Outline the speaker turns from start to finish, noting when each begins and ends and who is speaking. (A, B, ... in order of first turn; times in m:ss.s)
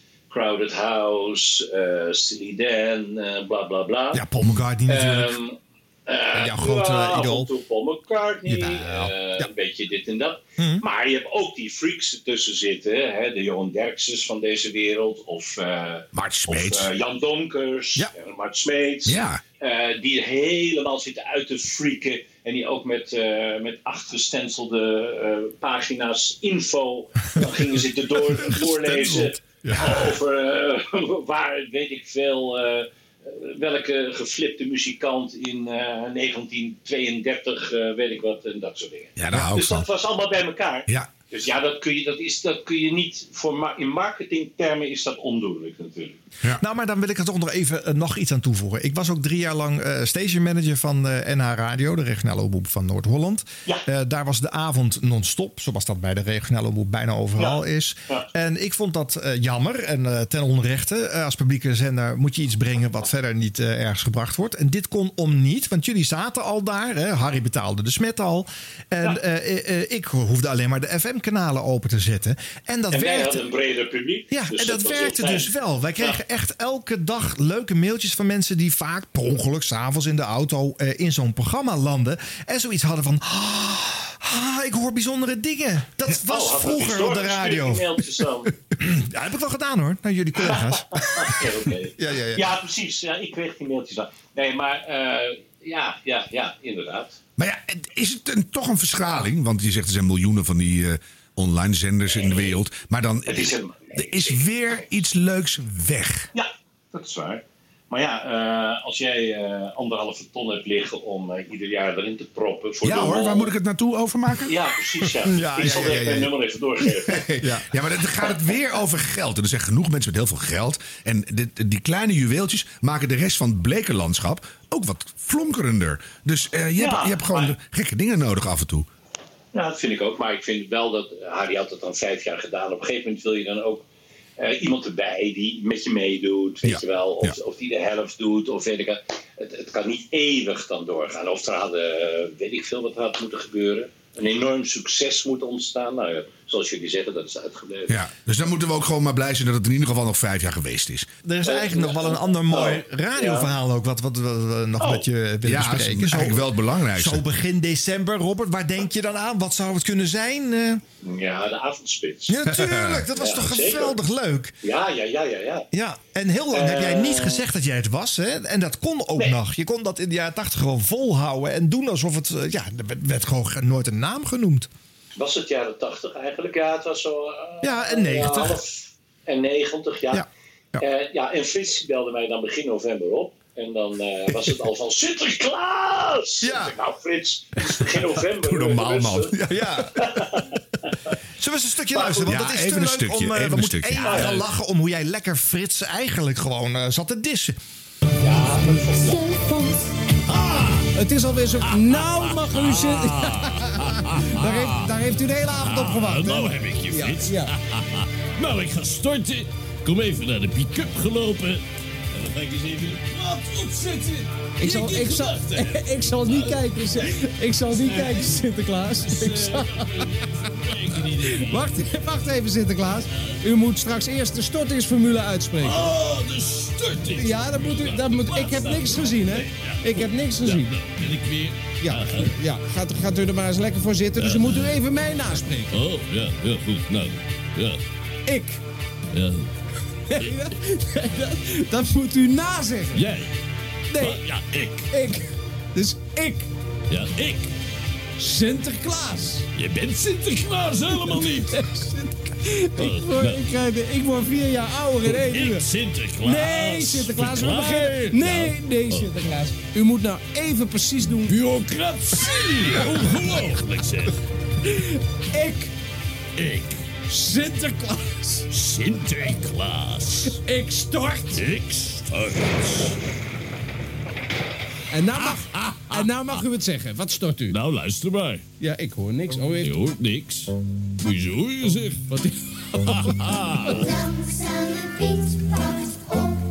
0:00.3-0:04.2 A
0:04.1-0:05.4 B
0:04.8-0:46.2 A
0:06.3-0:07.5 B
0:08.5-0:09.5 B
0:10.6-0:10.8 B
0:16.1-0:16.9 C
0:19.0-0:19.4 C
0:29.6-0:29.9 B
0:29.8-0:30.0 C
0:39.2-0:39.9 C
0:40.9-0:41.1 C
0:46.6-1:13.5 B
0:57.4-0:58.3 A
1:12.9-1:16.2 A
1:14.3-1:28.2 B
1:26.2-1:28.5 A
1:28.8-1:31.4 B
1:30.4-1:37.2 A
1:32.0-1:32.5 B
1:37.4-1:46.3 C
1:42.1-1:42.6 A
1:43.3-1:44.8 A
1:46.3-1:53.5 A
1:52.8-1:54.5 C
1:54.4-1:57.2 A
1:55.2-1:56.3 B
1:57.2-2:08.9 C
1:57.4-1:57.7 B
2:06.8-2:07.5 A
2:09.5-2:13.8 A
2:14.4-2:27.9 A
2:16.6-2:17.3 C
2:27.9-2:31.1 C
2:31.2-2:40.8 B
2:31.4-2:33.5 A
2:34.8-2:35.0 A
2:35.4-2:37.2 C
2:41.0-2:42.4 A
2:42.3-2:44.5 B
2:43.1-2:44.0 A
2:44.6-2:45.7 A
2:45.7-2:54.7 B
2:46.5-2:47.4 A
2:55.2-3:00.2 A
2:57.6-2:58.6 B
3:00.1-3:00.8 B
3:00.8-3:09.4 A
3:06.4-3:06.7 B
3:08.3-3:09.7 C
3:09.5-3:09.9 B
3:09.9-3:10.5 A
3:11.4-3:17.6 B
3:11.9-3:12.3 A
3:12.2-3:14.4 C
3:14.0-3:14.4 A
3:18.2-3:19.4 A
3:20.2-3:20.9 D
3:20.9-3:27.5 E
3:21.6-3:24.9 D
3:25.6-3:37.1 D
3:34.6-3:40.0 E
3:37.7-3:41.7 D
3:41.2-3:45.9 E
3:45.6-3:52.3 D
3:47.1-3:50.8 E
3:51.8-3:55.7 E
3:54.2-3:54.8 D
3:55.7-3:57.8 D
3:58.2-3:58.6 E
3:59.1-3:59.5 D
4:00.1-4:03.0 E
4:02.9-4:03.3 D
4:03.9-4:04.2 E
4:04.0-4:04.9 D
4:04.9-4:06.5 E
4:06.9-4:07.5 D
4:08.2-4:09.4 E
4:09.5-4:11.5 D
4:10.9-4:15.6 E
4:12.8-4:13.4 D
4:15.0-4:19.1 D
4:16.2-4:21.3 E
4:21.3-4:24.1 D
4:24.6-4:25.7 E
4:26.4-4:26.8 D
4:27.1-4:28.5 E
4:28.5-4:30.4 D
4:30.3-4:31.4 E
4:31.3-4:33.0 D
4:34.9-4:37.6 E
4:35.2-4:36.4 D
4:37.5-4:38.4 D
4:38.6-4:39.8 E
4:39.6-4:42.1 D
4:42.1-4:43.9 E
4:42.8-4:44.0 D